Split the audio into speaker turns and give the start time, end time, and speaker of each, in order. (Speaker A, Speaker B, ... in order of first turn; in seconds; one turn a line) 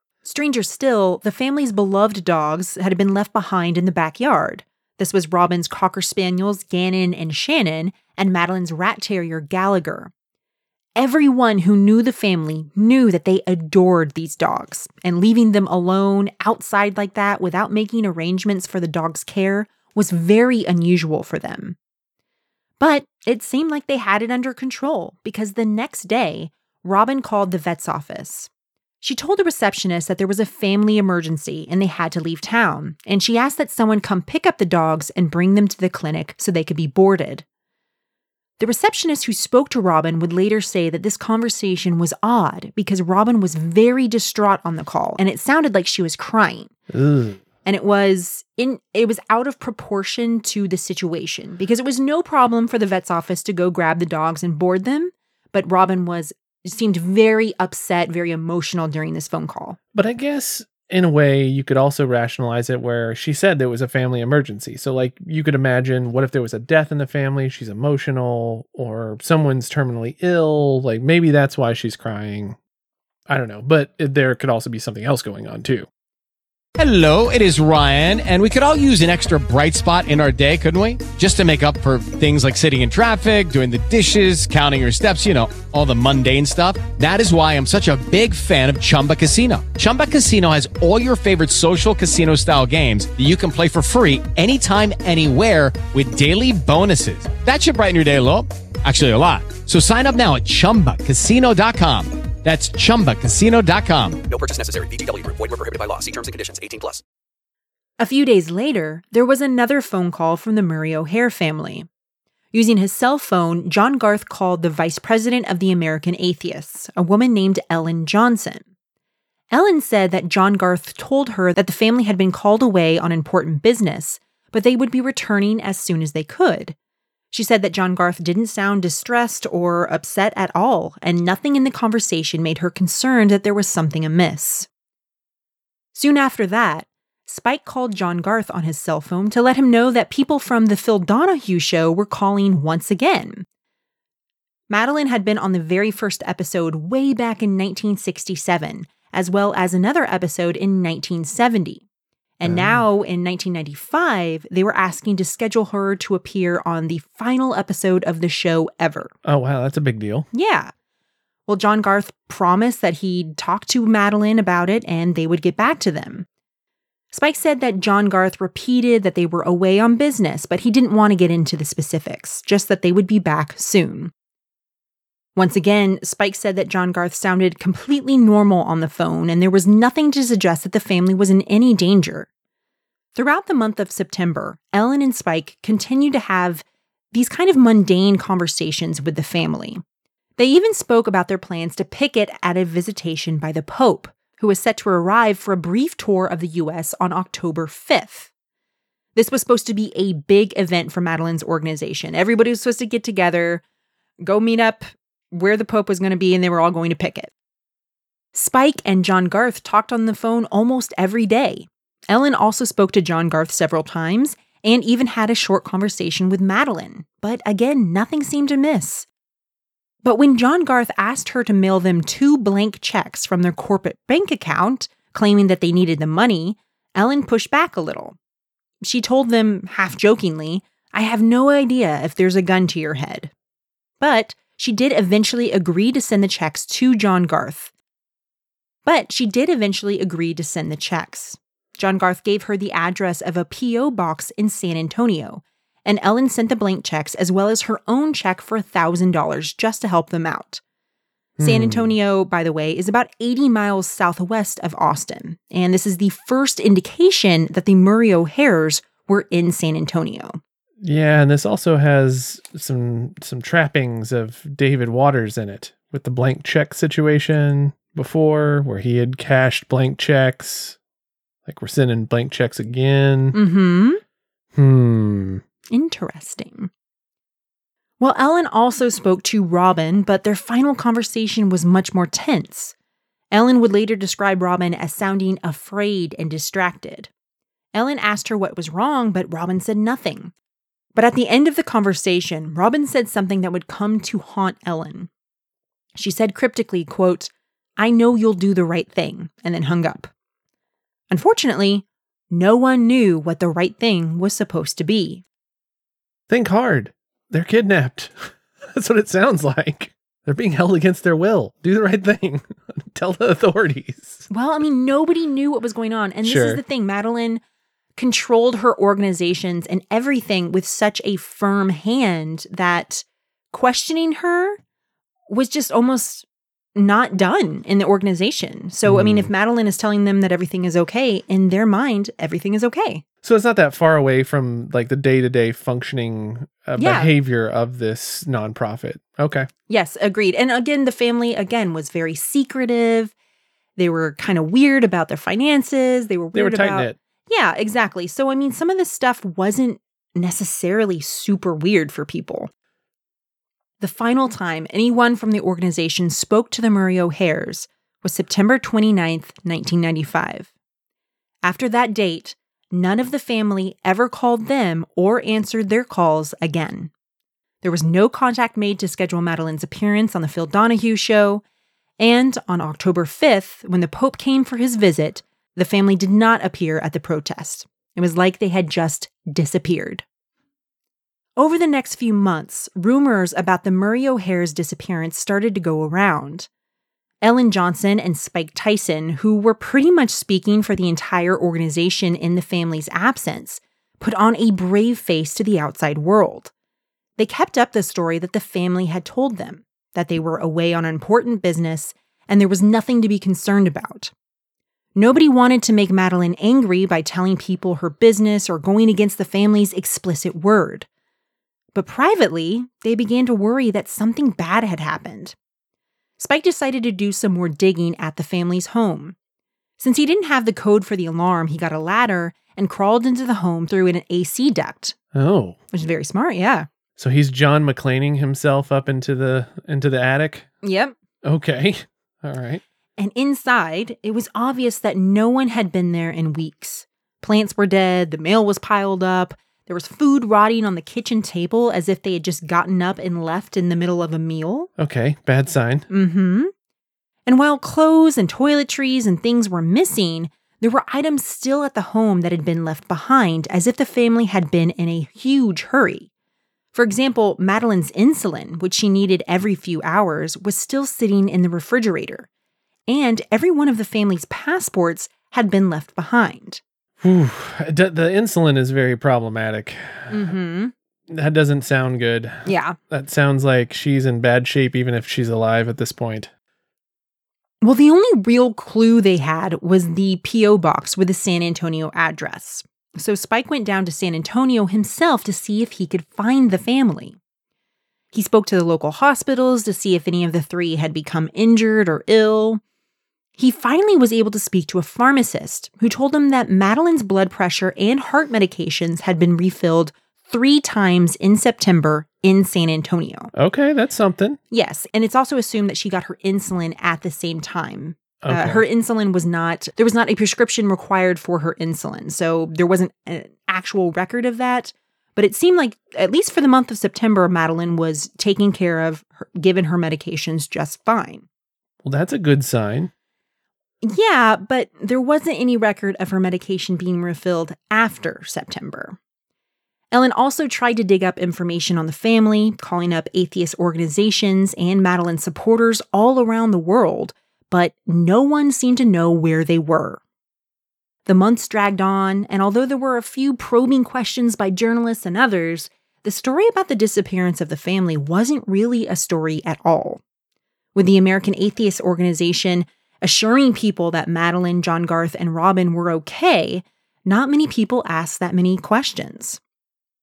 Speaker A: 0.2-10.1
Speaker A: 10.9-21.8
Speaker A: 22.8-28.5
Speaker A: 29.0-37.4
Speaker A: 38.6-46.7
Speaker B: 46.9-47.4
Speaker A: 47.6-59.8
Speaker B: 59.9-72.6
Speaker B: 73.3-75.9
Speaker C: 76.8-104.2
Speaker D: 104.3-107.0
Speaker A: 108.0-111.9
Speaker A: 112.5-118.6
Speaker A: 119.5-126.7
Speaker A: 127.3-134.7
Speaker A: 135.9-143.4
Speaker A: 144.7-151.8
Speaker A: 152.4-159.1
Speaker B: 152.4-152.8
Speaker B: 159.2-160.3
Speaker A: 160.3-160.7
Speaker A: 161.5-166.2
Speaker A: 167.1-174.1
Speaker A: 175.3-182.3
Speaker A: 183.1-189.8
Speaker A: 190.4-198.3
Speaker A: 199.2-203.6
Speaker A: 204.2-207.3
Speaker A: 208.3-219.1
Speaker A: 220.0-228.2
Speaker A: 228.8-233.3
Speaker A: 234.0-237.7
Speaker A: 238.8-250.6
Speaker B: 251.4-251.9
Speaker A: 251.4-260.4
Speaker B: 260.8-270.8
Speaker B: 271.4-273.4
Speaker A: 273.3-274.0
Speaker B: 274.5-275.4
Speaker A: 275.7-276.7
Speaker A: 278.0-282.7
Speaker A: 283.3-287.1
Speaker A: 287.7-290.3
Speaker A: 290.9-295.1
Speaker A: 295.9-300.1
Speaker A: 301.1-305.2
Speaker B: 306.3-314.2
Speaker A: 314.3-317.4
Speaker B: 316.2-316.6
Speaker A: 317.9-324.6
Speaker A: 325.3-333.0
Speaker B: 328.9-329.3
Speaker B: 333.2-339.5
Speaker A: 336.8-337.1
Speaker A: 339.7-343.1
Speaker A: 343.8-352.5
Speaker B: 346.3-346.9
Speaker A: 353.8-360.5
Speaker A: 361.4-366.9
Speaker A: 367.6-371.4
Speaker A: 372.0-380.0
Speaker A: 381.4-386.5
Speaker A: 387.2-396.5
Speaker A: 397.2-404.1
Speaker A: 404.9-410.9
Speaker A: 411.7-415.3
Speaker A: 416.2-419.1
Speaker A: 419.8-424.9
Speaker B: 425.1-425.6
Speaker A: 425.7-426.7
Speaker B: 427.0-430.5
Speaker A: 430.6-430.9
Speaker B: 431.2-432.6
Speaker A: 433.0-444.7
Speaker B: 444.8-445.9
Speaker A: 445.9-446.5
Speaker A: 447.2-456.1
Speaker A: 456.7-462.3
Speaker A: 462.9-466.6
Speaker B: 467.0-470.3
Speaker A: 470.1-470.7
Speaker B: 471.1-476.3
Speaker A: 472.4-472.8
Speaker A: 477.6-487.2
Speaker A: 488.1-492.6
Speaker A: 493.4-503.3
Speaker B: 503.3-504.4
Speaker A: 504.5-521.2
Speaker B: 508.2-508.6
Speaker B: 521.8-522.9
Speaker A: 523.8-529.0
Speaker A: 529.9-540.0
Speaker A: 541.1-550.0
Speaker A: 550.7-559.4